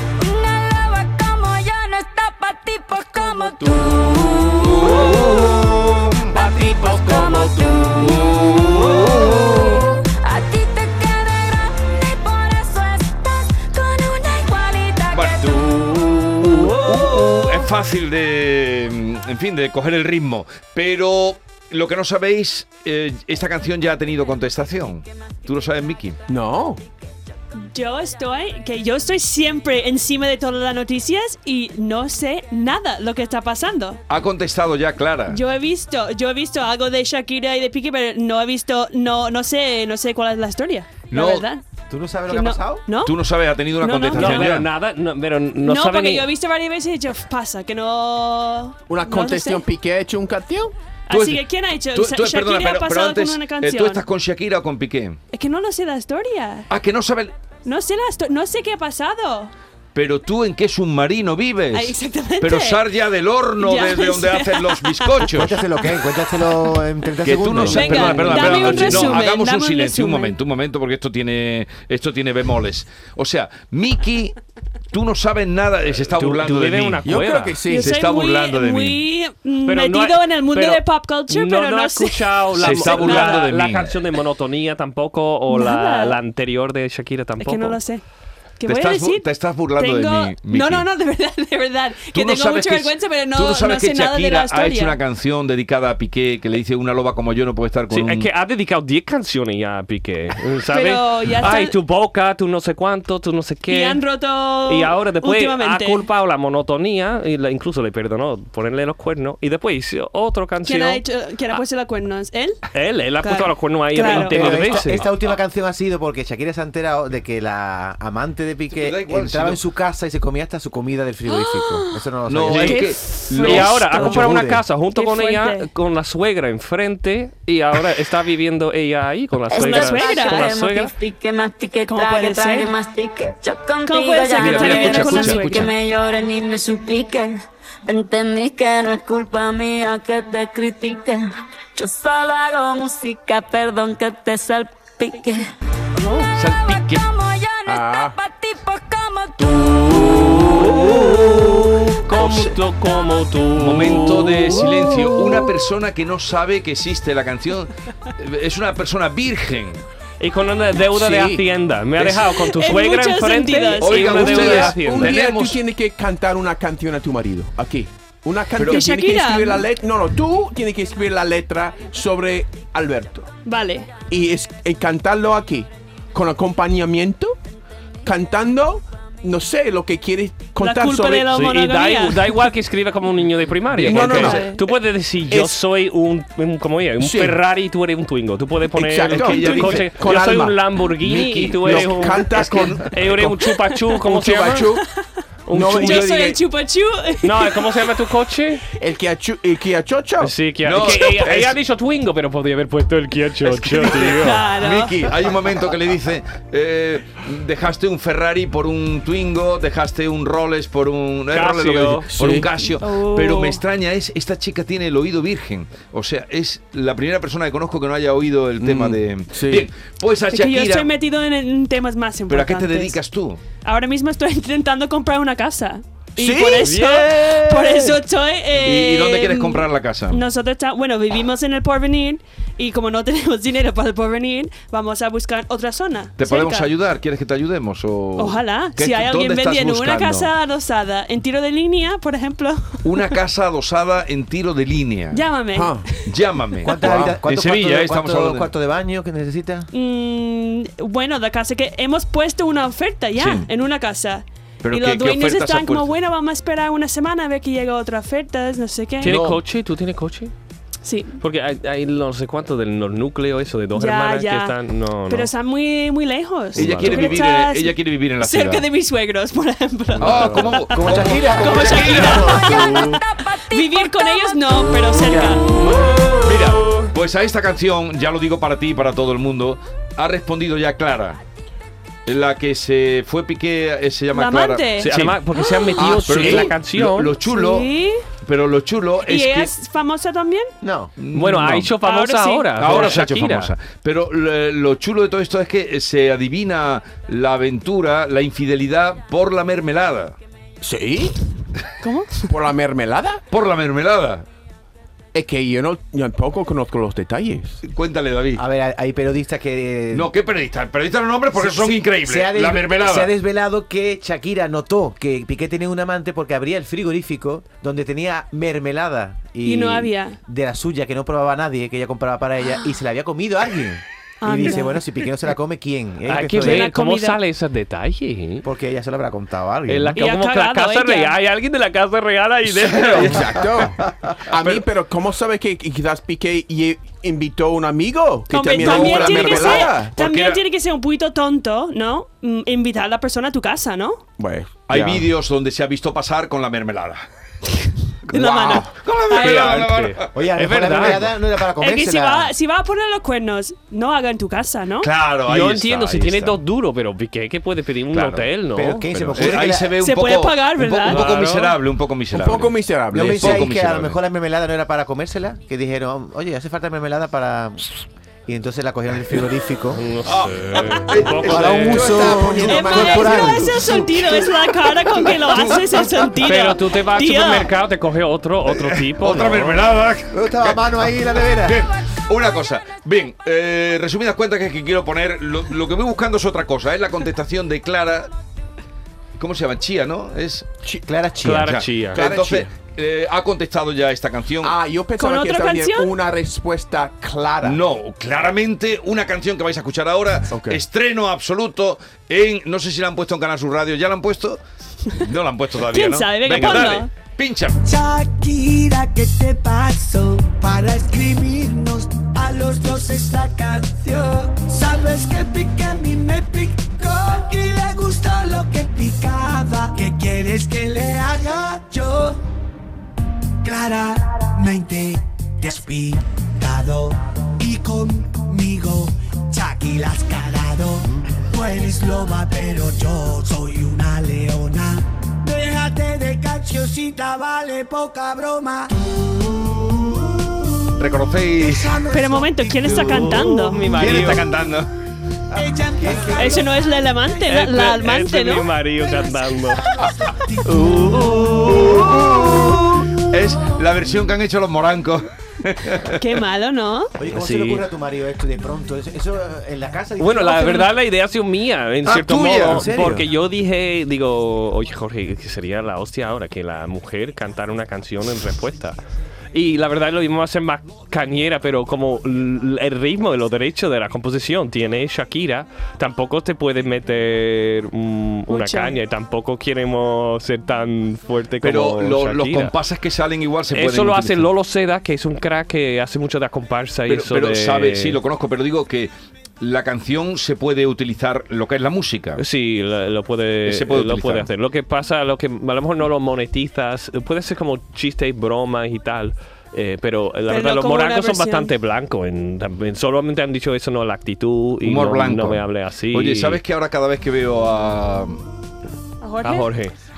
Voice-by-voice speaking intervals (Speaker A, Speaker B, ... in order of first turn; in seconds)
Speaker A: 0.2-15.9, 129.5-145.5, 146.1-151.2, 272.3-274.6
Speaker B: 3.3-5.4, 6.3-9.7, 15.9-17.6, 44.1-46.3, 76.1-77.6, 79.7-87.8, 97.9-104.0, 104.7-111.6, 112.7-115.0, 123.4-130.9, 149.4-155.4, 160.2-165.1, 181.3-194.7, 195.5-196.2, 197.2-198.6, 200.2-204.4, 211.3-212.1, 259.0-260.3, 261.2-265.3, 266.6-266.9, 284.8-287.1, 291.1-293.5, 326.1-328.4, 329.7-333.3, 349.1-351.1, 355.3-359.2, 360.9-361.5, 369.7-372.1, 376.2-379.6, 391.2-392.0, 442.7-444.3, 447.2-449.7, 450.4-451.9, 457.1-457.6, 460.0-468.8, 469.3-482.5, 483.5-488.0, 492.2-506.4, 509.2-509.7
Speaker C: 4.6-6.3, 8.0-9.8, 15.1-26.2, 34.1-35.4, 41.1-41.5, 43.0-44.7, 51.1-55.2, 56.7-57.3, 59.9-65.6, 67.2-74.3, 74.9-77.1, 77.7-79.0, 82.5-84.0, 88.7-90.9, 92.1-98.3, 118.7-119.6, 122.3-124.5, 134.3-135.7, 146.3-147.0, 151.2-151.5, 152.2-152.5, 153.6-159.8, 162.0-162.3, 163.8-165.6, 168.6-168.8, 189.1-189.9, 191.6-193.1, 200.6-201.5, 203.5-220.9, 222.3-223.4, 228.6-230.2, 236.2-240.3, 242.8-245.2, 246.1-248.5, 253.2-253.5, 254.6-255.9, 266.5-268.6, 270.0-272.4, 276.2-281.2, 282.1-285.2, 286.0-287.7, 288.2-289.5, 291.0-291.7, 292.6-300.2, 303.3-304.2, 307.6-308.4, 309.9-313.1, 332.5-334.6, 338.6-340.4, 344.7-347.0, 348.5-350.1, 354.8-356.4, 357.9-358.3, 358.9-364.0, 370.1-371.5, 375.1-376.1, 378.5-388.1, 389.2-390.5, 391.4-394.6, 397.4-404.4, 404.9-407.6, 440.7-441.8, 443.7-444.7, 451.2-456.2, 461.9-462.7, 481.4-484.3, 486.9-492.2, 493.4-494.3, 504.6-508.2
Speaker D: 26.3-26.8, 48.9-50.7, 77.0-77.9, 147.7-148.2, 160.9-161.4, 164.5-173.3, 174.1-177.4, 178.0-181.3, 183.8-184.5, 185.3-185.6, 187.0-187.4, 188.7-193.4, 194.0-194.8, 195.5-196.4, 198.8-200.3, 212.1-212.5, 218.6-219.7, 226.2-228.0, 245.5-245.8, 246.8-247.2, 259.0-259.4, 270.0-270.3, 275.1-275.4, 285.8-286.5, 300.6-301.2, 302.3-303.2, 305.1-307.6, 332.9-339.9, 344.2-345.1, 348.1-348.7, 362.1-363.5, 371.2-373.8, 391.9-392.5, 394.4-397.6, 400.3-400.6
Speaker E: 27.6-34.0, 35.3-41.6, 42.3-43.2, 43.8-44.6, 45.6-49.6, 51.1-54.0, 55.3-56.7, 57.6-59.5, 61.7-62.8, 63.6-65.3, 67.6-70.3, 77.7-83.5, 85.5-86.2, 87.4-88.0, 88.6-95.0, 100.7-101.7, 103.7-106.0, 110.6-112.6, 113.2-114.7, 121.3-122.0, 122.5-125.7, 129.5-130.5, 131.9-132.7, 133.8-135.7, 146.0-146.3, 162.3-164.7, 168.7-169.6, 173.4-173.9, 180.6-182.4, 183.9-184.6, 195.8-197.7, 203.8-205.2, 212.7-213.6, 220.3-222.9, 223.6-236.7, 238.2-243.1, 245.1-246.7, 249.7-259.2, 260.8-261.2, 263.7-275.7, 284.1-285.8, 287.2-288.0, 289.0-290.5, 291.8-293.0, 301.8-302.3, 319.4-320.2, 324.2-324.8, 326.4-327.2, 329.9-331.2, 338.3-344.0, 347.6-349.7, 351.6-354.9, 359.8-361.1, 370.7-371.1, 372.4-377.5, 395.0-395.9, 405.6-406.9, 441.9-443.9, 446.1-448.6, 455.9-456.9, 478.3-478.8, 500.3-501.5, 509.0-509.5
Speaker F: 41.9-42.8, 65.3-69.2, 114.1-123.0, 124.0-124.5, 246.6-249.7, 270.7-272.5, 290.6-290.9, 308.3-310.1, 311.3-326.7, 328.4-330.0, 350.1-352.3, 358.5-359.7, 362.9-369.9, 371.2-373.8, 380.1-381.7, 390.8-391.6, 457.0-460.7, 462.4-463.1
Speaker G: 407.6-422.2, 423.4-440.5, 441.3-443.2, 445.3-447.3, 448.8-453.3